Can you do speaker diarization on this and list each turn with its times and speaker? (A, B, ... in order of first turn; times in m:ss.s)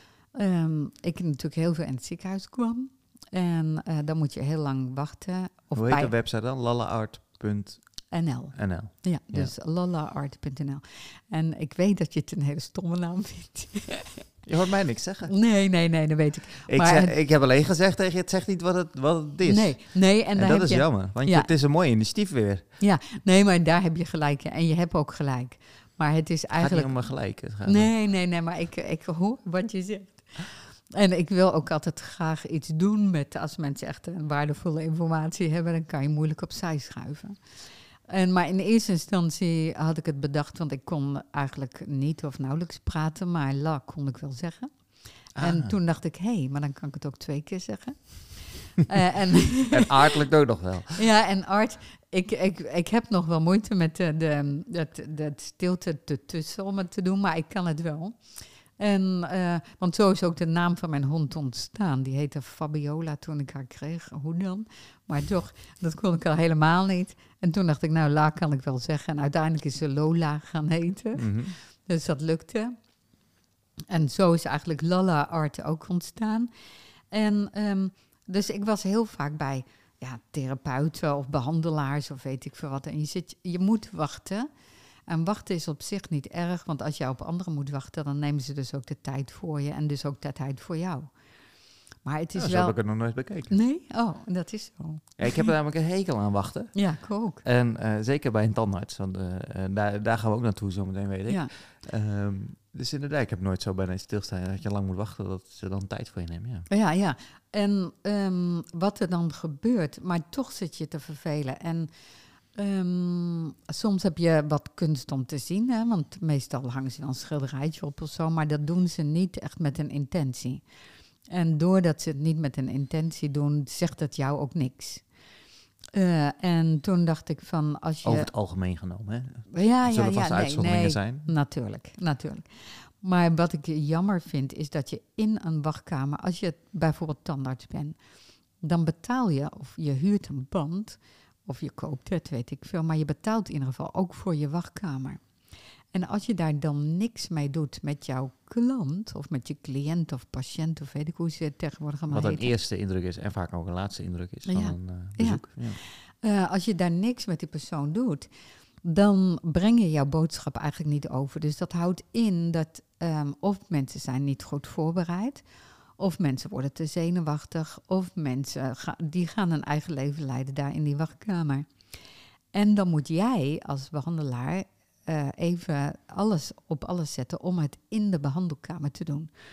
0:00.4-0:06.1 A
0:05.8-0:09.5 B
0:08.1-0:14.3 A
0:14.4-0:15.3 B
0:15.3-0:17.1 A
0:16.7-0:22.6 B
0:19.4-0:21.5 A
0:22.8-0:49.9 A
0:26.5-0:27.9 B
0:45.4-0:45.7 B
0:49.7-0:51.0 B
0:51.0-1:12.8 A
1:11.2-1:11.5 B
1:13.9-1:16.5 A
1:17.1-1:24.5 A
1:25.1-1:31.1 A
1:32.0-1:35.5 A
1:32.4-1:33.6 B
1:35.2-1:46.7 B
1:36.7-1:37.4 A
1:46.7-1:51.9 A
1:52.6-2:00.6 A
2:01.3-2:05.0 A
2:06.0-2:08.3 A
2:08.0-2:11.3 B
2:09.5-2:18.0 A
2:18.6-2:25.2 A
2:25.9-2:32.5 A
2:32.1-2:35.8 B
2:34.5-2:38.3 A
2:38.8-2:45.4 A
2:46.0-2:51.7 A
2:52.5-2:59.3 A